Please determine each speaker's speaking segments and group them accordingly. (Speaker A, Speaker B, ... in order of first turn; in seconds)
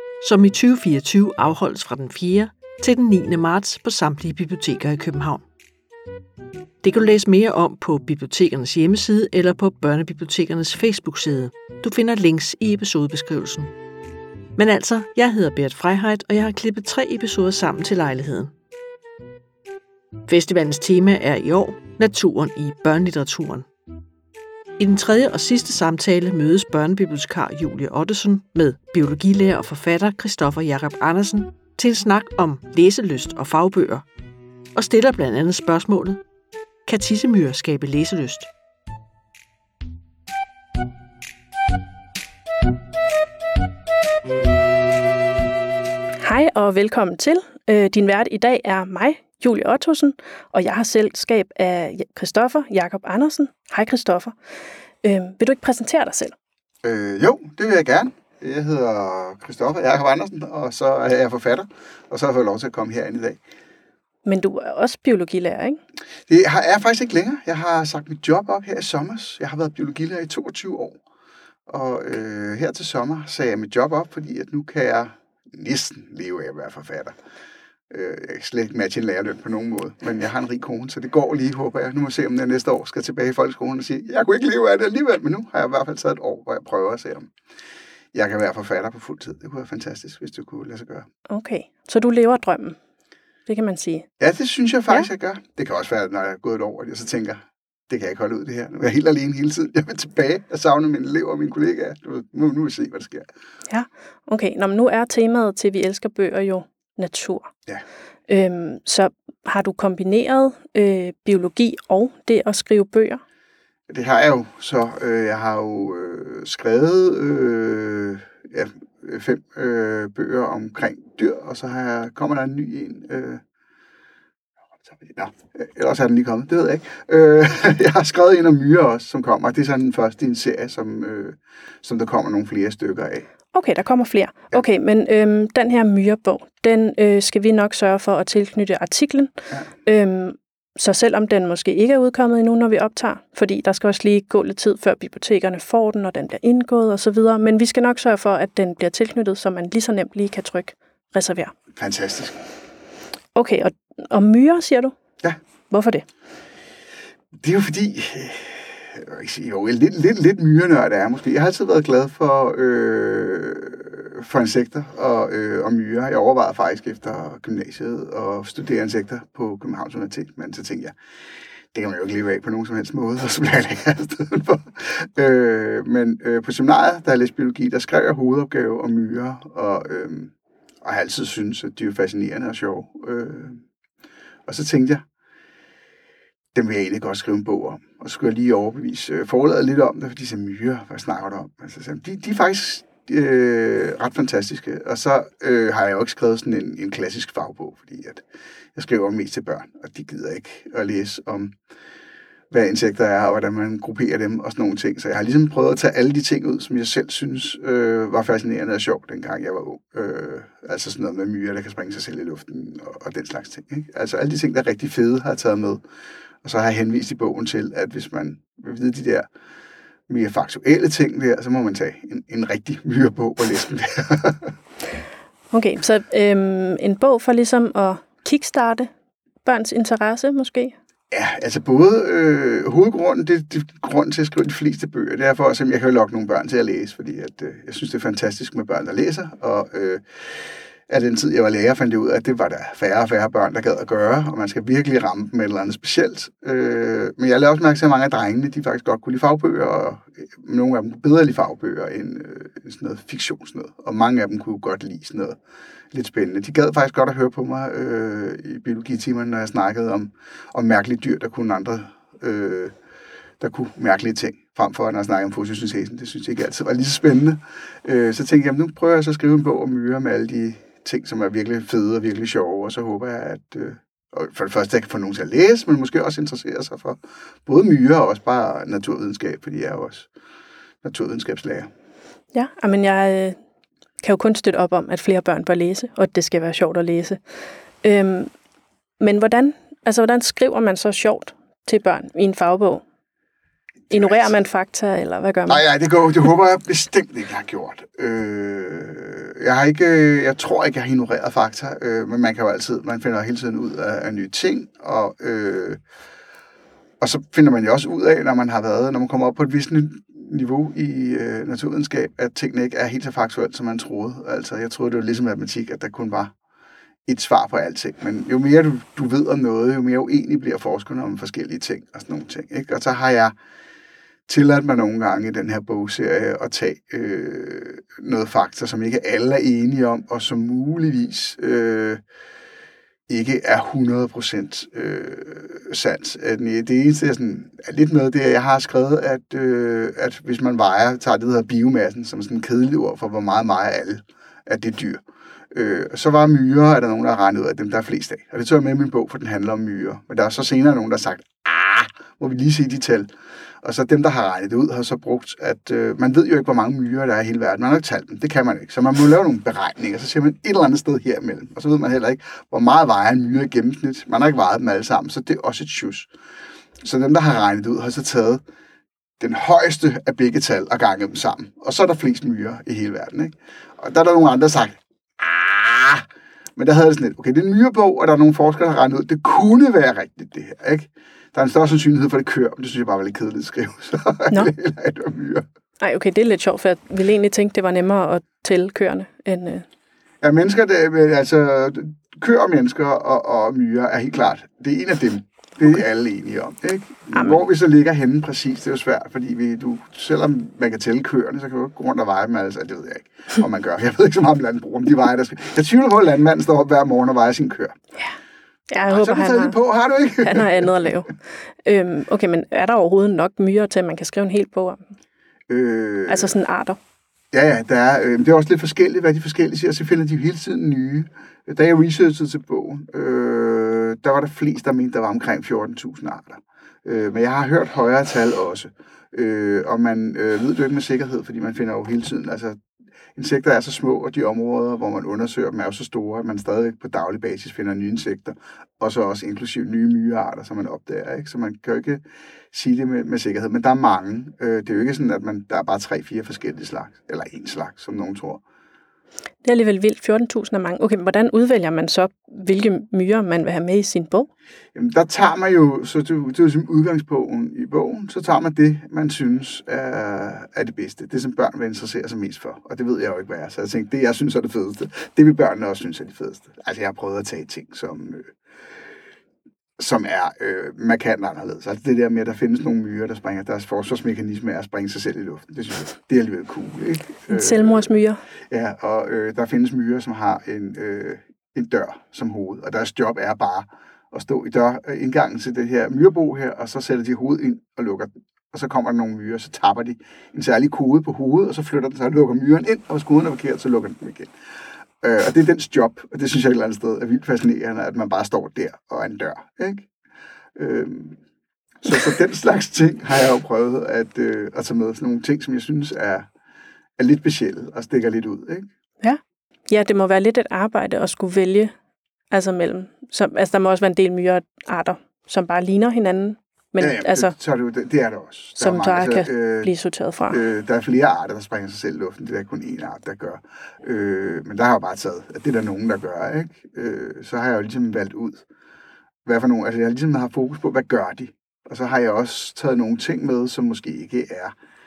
Speaker A: 0.2-5.4, 6.8-13.7, 14.6-18.5, 20.3-23.7, 24.8-34.0, 34.7-36.2, 36.9-38.5
Speaker B: 46.2-54.3, 55.0-56.3, 64.2-65.8, 91.3-92.8, 93.5-94.1, 103.7-107.5, 108.3-113.2, 133.5-139.3, 139.8-151.5, 153.3-154.9, 155.7-156.1, 225.5-228.9, 229.4-230.7, 282.3-283.4, 284.0-287.2, 287.8-288.3, 289.0-292.8, 293.9-295.6, 385.8-389.6, 397.1-397.4, 408.7-409.6, 410.2-414.9, 416.1-416.8, 449.4-454.3, 477.3-478.2, 509.0-511.7, 512.3-517.3, 518.6-520.4
Speaker C: 56.8-63.4, 66.3-71.0, 71.7-77.2, 77.9-87.3, 88.1-91.1, 94.2-103.3, 113.9-123.4, 124.8-133.3, 151.7-152.4, 157.4-170.9, 171.7-183.6, 184.4-185.1, 186.5-201.6, 202.5-215.8, 216.4-219.3, 220.1-224.5, 231.1-255.4, 255.9-262.7, 263.4-280.1, 280.8-281.7, 293.9-294.3, 295.5-305.8, 307.0-316.3, 317.1-323.3, 324.3-332.0, 333.1-353.1, 353.6-366.1, 366.8-368.4, 369.2-385.4, 390.2-407.8, 408.9-410.9, 415.5-416.4, 417.3-432.6, 433.1-448.4, 454.7-468.3, 469.8-478.0, 478.5-494.3, 495.0-499.9, 500.5-501.2, 501.8-506.3, 507.0-508.7, 516.8-519.7, 520.3-528.4, 529.2-534.5